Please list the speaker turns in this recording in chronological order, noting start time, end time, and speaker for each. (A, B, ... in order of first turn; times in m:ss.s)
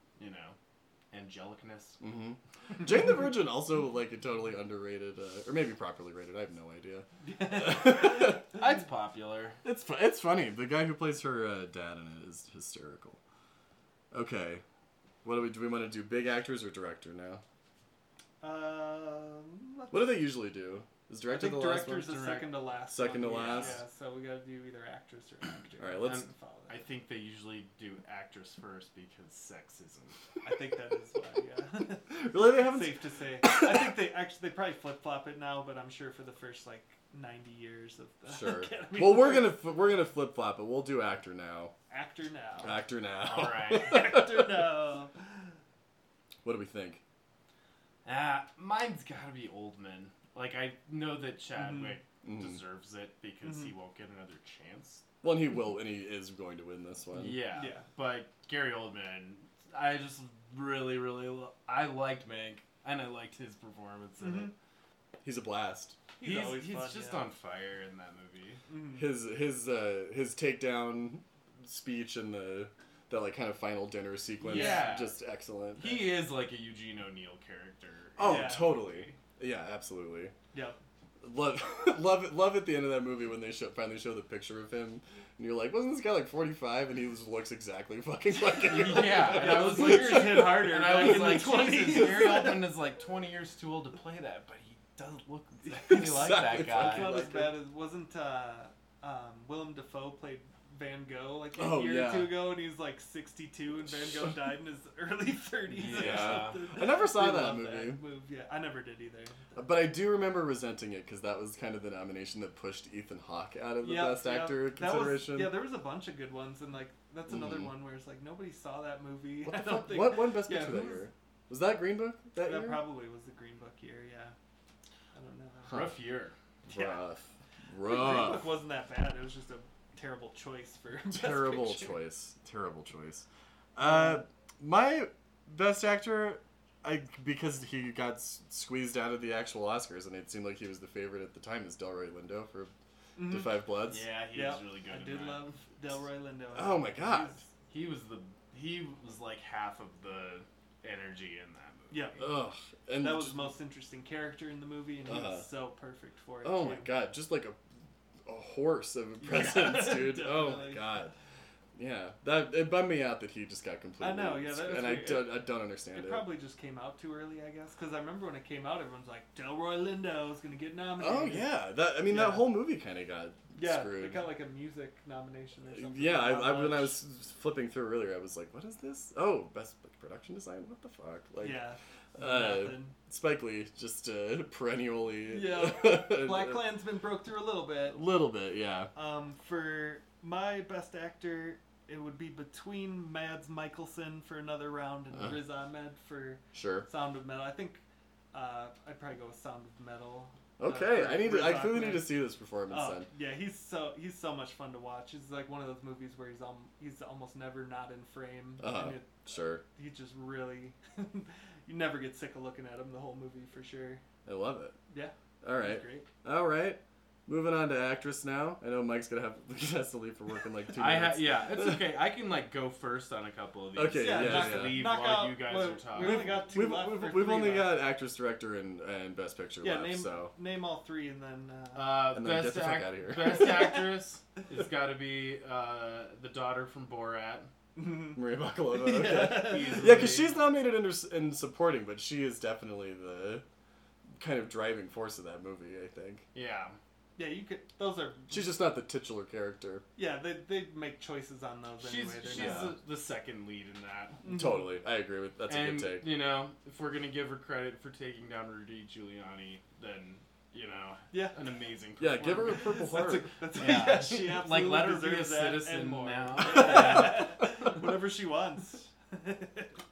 0:00.2-0:00.6 A
0:01.1-0:02.0 A
0:02.0-0:08.4 B
0:07.2-0:08.4 C
0:08.4-0:09.6 A
0:09.6-0:13.2 B
0:14.1-0:14.6 B
0:15.2-0:17.4 B
0:18.4-0:20.2 C
0:19.9-0:22.2 B
0:21.3-0:26.8 C
0:22.0-0:22.6 A
0:22.9-0:23.8 B
0:23.2-0:23.8 A
0:25.8-0:26.3 B
0:26.0-0:30.2 A
0:30.4-0:39.6 C
0:32.1-0:33.7 B
0:38.3-0:41.7 B
0:41.9-0:42.9 C
0:42.6-0:44.6 B
0:43.2-0:44.1 A
0:43.6-0:45.5 C
0:46.4-0:47.0 B
0:48.0-0:55.0 A
0:51.6-0:52.0 C
0:52.2-0:52.6 B
0:53.4-0:53.7 C
0:55.2-0:57.4 B
0:57.1-1:04.5 A
0:57.6-0:57.9 C
1:04.2-1:04.5 C
1:05.2-1:06.0 B
1:06.2-1:07.3 C
1:06.2-1:08.6 A
1:08.7-1:09.0 C
1:08.9-1:16.1 B
1:14.4-1:15.2 A
1:14.4-1:15.0 C
1:15.8-1:18.8 A
1:18.2-1:20.4 B
1:18.2-1:19.1 C
1:21.2-1:31.0 B
1:28.5-1:32.7 C
1:28.7-1:37.2 A
1:35.8-1:37.6 B
1:36.0-1:49.6 C
1:41.5-1:42.5 B
1:44.0-1:44.4 B
1:45.7-1:46.6 A
1:45.9-1:48.0 B
1:49.6-1:55.6 B
1:53.8-2:01.1 C
1:57.3-1:57.7 B
1:59.4-2:02.9 B
2:02.4-2:04.4 C
2:05.1-2:05.9 C
2:05.7-2:06.4 A
2:06.7-2:08.5 B
2:06.7-2:07.0 C
2:07.8-2:12.0 C
2:11.1-2:22.7 B
2:13.8-2:14.2 C
2:23.2-2:23.6 C
2:23.2-2:24.0 B
2:23.9-2:25.5 A
2:24.3-2:27.5 C
2:26.5-2:27.4 B
2:27.7-2:32.2 A
2:31.9-2:32.2 C
2:32.2-2:33.4 B
2:33.0-2:36.9 C
2:35.1-2:35.5 B
2:36.4-2:37.6 B
2:38.3-2:41.1 B
2:39.2-2:41.1 C
2:41.8-2:46.3 B
2:44.0-2:51.5 C
2:51.0-2:54.3 B
2:52.0-2:52.5 C
2:53.6-2:57.0 C
2:55.7-3:06.7 B
3:01.4-3:03.0 C
3:05.3-3:08.0 C
3:07.9-3:08.9 B
3:09.0-3:17.8 C
3:15.1-3:15.4 B
3:16.5-3:16.9 B
3:18.3-3:34.0 C
3:20.6-3:23.1 B
3:28.6-3:29.6 B
3:34.2-3:34.8 B
3:34.9-3:36.1 C
3:35.4-3:41.9 B
3:40.8-3:46.4 A
3:43.8-3:44.9 B
3:44.0-3:47.8 C
3:46.0-3:50.3 B
3:49.6-3:52.0 C
3:51.7-3:57.5 A
3:52.1-3:53.5 B
3:57.8-4:00.1 C
3:58.2-4:03.4 B
3:59.1-4:00.4 A
4:04.2-4:06.3 B
4:06.3-4:06.8 A
4:07.2-4:08.5 C
4:08.3-4:09.8 B
4:10.0-4:12.7 C
4:11.8-4:14.2 A
4:12.3-4:12.7 B
4:14.2-4:14.7 C
4:14.3-4:16.1 B
4:15.5-4:22.7 A
4:21.1-4:21.4 C
4:22.0-4:23.3 B
4:22.4-4:29.8 C
4:23.6-4:27.7 A